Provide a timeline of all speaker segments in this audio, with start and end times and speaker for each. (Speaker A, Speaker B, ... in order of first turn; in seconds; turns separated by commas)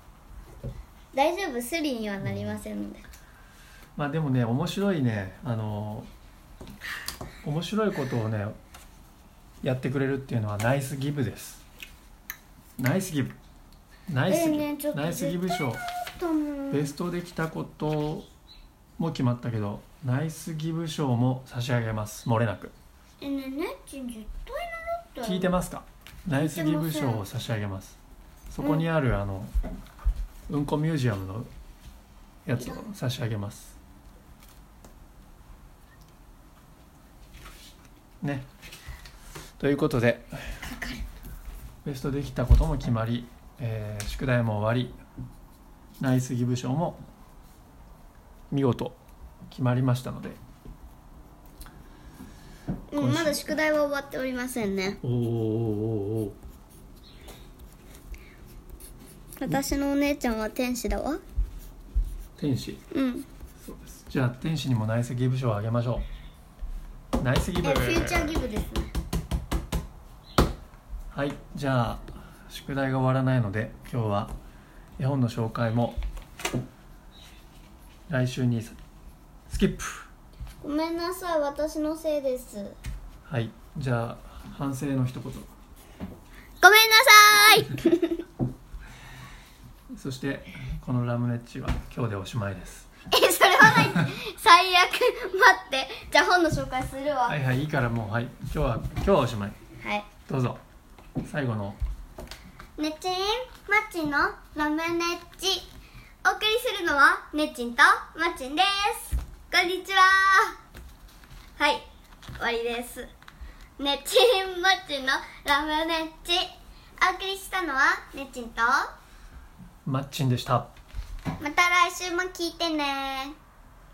Speaker A: 1.1-3.0, Speaker B: 2.2-2.6, Speaker B: 4.0-6.1, Speaker B: 7.4-8.6, Speaker B: 9.6-11.6, Speaker B: 12.8-13.4, Speaker B: 14.1-15.8, Speaker A: 14.3-16.9, Speaker B: 16.7-18.3, Speaker B: 19.0-22.7, Speaker A: 23.2-25.5, Speaker B: 25.2-28.0, Speaker A: 26.3-27.2, Speaker B: 28.5-29.5, Speaker A: 28.6-28.9, Speaker B: 30.5-31.5, Speaker B: 32.4-33.8, Speaker B: 38.2-38.5, Speaker B: 39.6-40.4, Speaker A: 40.6-41.0, Speaker B: 41.8-45.0, Speaker B: 46.0-47.0, Speaker B: 48.5-49.0, Speaker B: 49.5-50.4, Speaker A: 52.9-55.0, Speaker B: 53.0-53.6, Speaker B: 55.0-56.4, Speaker A: 59.4-61.2, Speaker B: 62.4-62.8, Speaker A: 62.9-63.3, Speaker B: 63.6-66.1, Speaker B: 67.2-68.4, Speaker A: 67.6-68.9, Speaker B: 71.1-74.3, Speaker B: 75.0-76.0, Speaker B: 78.1-78.8, Speaker B: 79.5-80.1, Speaker A: 80.6-82.8, Speaker B: 83.2-85.5, Speaker A: 86.6-88.2, Speaker B: 89.9-92.9, Speaker A: 93.1-97.4, Speaker B: 97.3-99.6, Speaker A: 99.8-100.1, Speaker B: 100.3-100.6, Speaker B: 101.2-101.8, Speaker A: 102.8-105.7, Speaker A: 106.2-110.5, Speaker A: 111.6-111.8, Speaker A: 112.4-113.1, Speaker A: 113.8-118.9, Speaker B: 119.8-120.7, Speaker A: 121.4-123.3